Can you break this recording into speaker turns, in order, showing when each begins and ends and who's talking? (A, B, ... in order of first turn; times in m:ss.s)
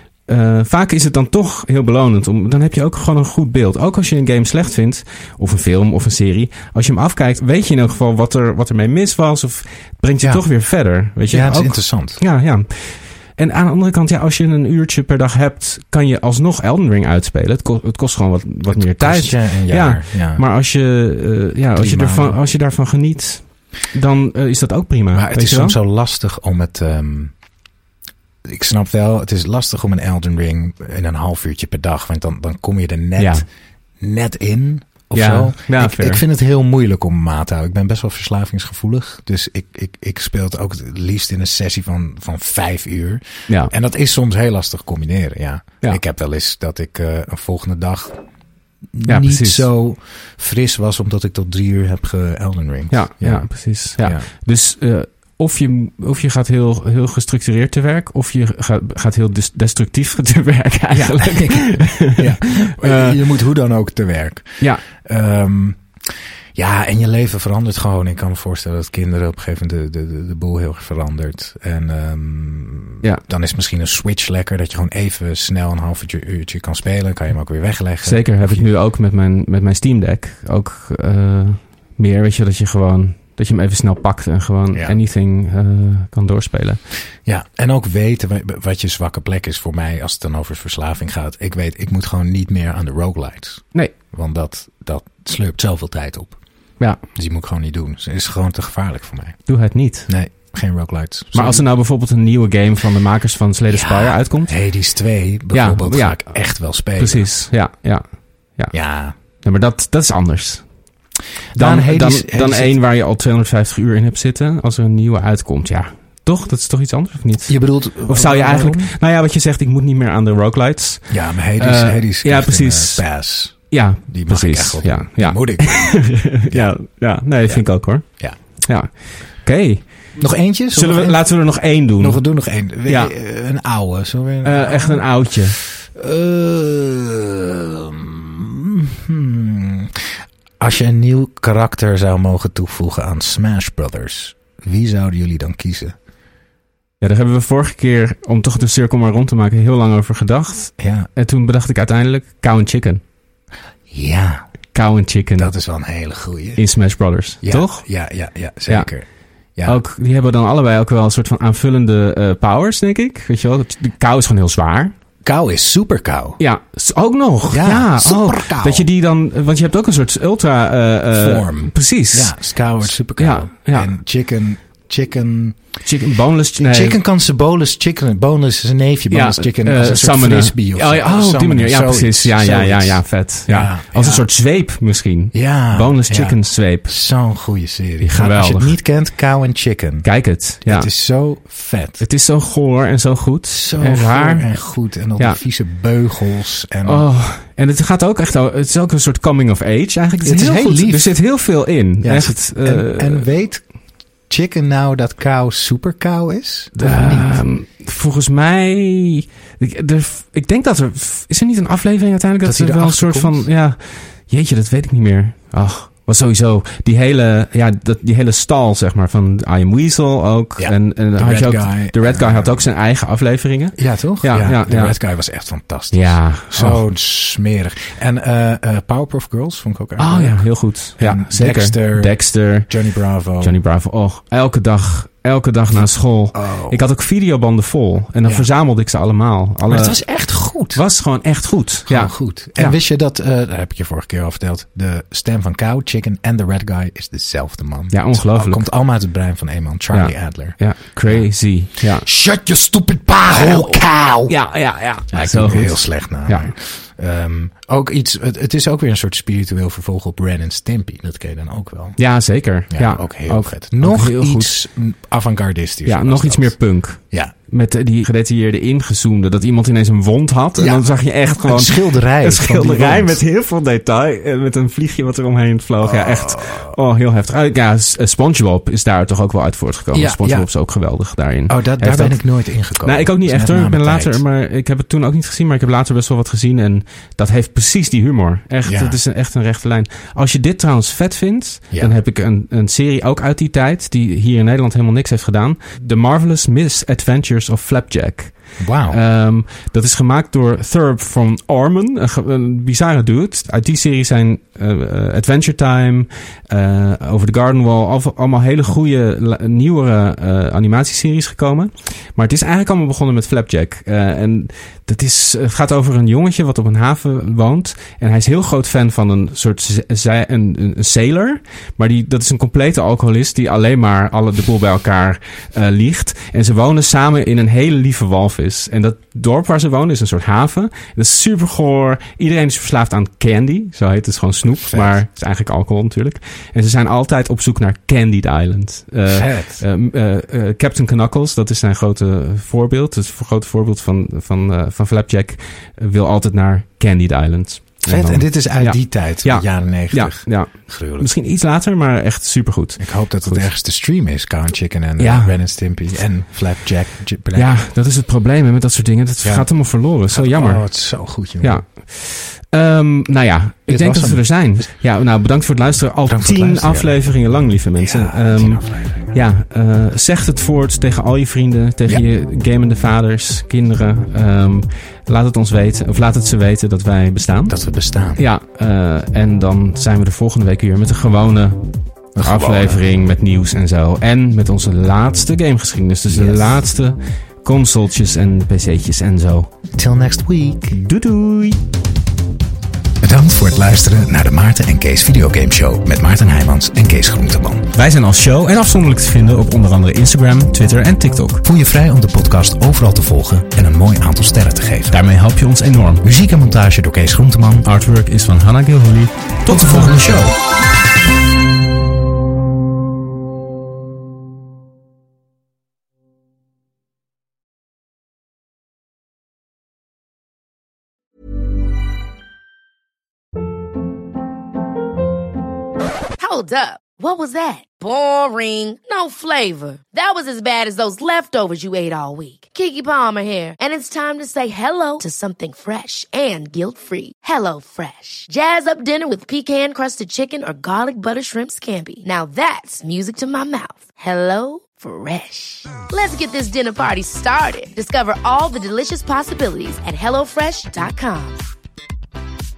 0:00.3-0:25.8 A
0:11.3-0:12.2 B
0:18.7-0:20.4 B
0:21.8-0:22.4 B
0:25.1-0:27.3 B
0:28.4-0:33.4 B
0:33.2-0:33.4 A
0:34.0-0:48.2 B
0:35.1-0:36.2 A
0:49.0-0:54.3 B
0:49.1-0:49.6 A
0:52.9-1:03.2 A
1:00.9-1:05.8 B
1:06.6-1:18.7 B
1:18.0-1:26.8 A
1:27.2-1:36.4 B
1:37.2-1:39.4 B
1:39.5-1:40.1 A
1:40.1-1:41.6 B
1:41.4-1:44.6 A
1:43.7-1:47.3 B
1:45.5-1:46.4 A
1:47.0-1:48.0 A
1:48.7-1:49.2 B
1:49.4-1:50.7 A
1:51.5-1:52.8 B
1:51.6-2:03.1 A
1:57.5-1:58.9 B
2:01.1-2:06.8 B
2:03.7-2:09.8 A
2:10.2-2:11.2 B
2:10.7-2:12.2 A
2:12.0-2:20.0 B
2:12.9-2:13.1 A
2:14.4-2:15.6 A
2:20.6-2:26.0 B
2:27.0-2:33.0 A
2:30.8-2:31.1 B
2:33.9-2:34.4 B
2:34.7-2:35.5 A
2:35.4-2:36.6 B
2:36.6-2:37.8 A
2:37.4-2:39.8 B
2:39.6-2:44.9 A
2:45.2-2:46.4 B
2:46.4-2:52.4 A
2:47.5-2:48.9 B
2:51.1-2:55.6 B
2:53.2-2:53.9 A
2:55.8-2:57.0 A
2:56.6-3:04.2 B
2:59.1-3:06.9 A
3:05.3-3:10.1 B
3:08.0-3:08.8 A
3:10.0-3:10.9 A
3:10.6-3:12.0 B
3:12.0-3:14.6 A
3:13.5-3:17.0 B
3:16.8-3:23.3 A
3:20.2-3:21.2 B
3:22.0-3:23.6 B
3:24.3-3:27.4 B
3:26.8-3:45.0 A
3:32.4-3:33.5 B
3:40.6-3:42.6 B
3:43.8-3:50.5 B
3:45.9-3:46.8 A
3:50.0-3:52.7 A
3:51.0-3:53.6 B
3:53.4-4:00.0 A
3:55.7-3:56.8 B
3:59.7-4:00.8 B
4:00.7-4:02.8 A
4:01.9-4:11.3 B
4:07.9-4:08.6 A
4:09.9-4:12.1 A
4:11.8-4:14.4 B
4:13.3-4:16.5 A
4:15.1-4:22.0 B
4:22.0-4:24.6 A
4:22.7-4:26.6 B
4:25.9-4:42.2 A
4:30.6-4:30.9 B
4:31.4-4:33.2 B
4:35.8-4:36.8 B
4:39.9-4:40.5 B
4:41.5-4:44.2 B
4:42.8-4:58.3 A
4:48.6-4:49.0 B
4:58.6-4:59.0 B
4:58.9-5:53.4 A
5:34.7-5:35.0 B
5:39.1-5:39.6 B
5:47.9-5:51.1 B
5:52.8-5:57.6 B
5:55.0-5:55.4 A
5:57.4-6:00.6 A
6:00.1-6:01.6 B
6:01.4-6:17.6 A
6:03.7-6:04.3 B
6:06.0-6:07.0 B
6:07.8-6:09.2 B
6:17.5-6:18.2 B
6:18.2-6:21.6 A
6:22.2-6:22.8 B
6:22.2-6:29.5 A
6:26.1-6:26.4 B
6:29.7-6:30.8 B
6:30.7-6:31.6 A
6:33.0-6:37.7 B
6:37.8-6:41.4 A
6:41.4-6:45.0 B
6:44.9-6:46.1 A
6:46.0-6:47.7 B
6:47.6-6:50.4 A
6:49.5-6:50.4 B
7:06.2-7:31.4 C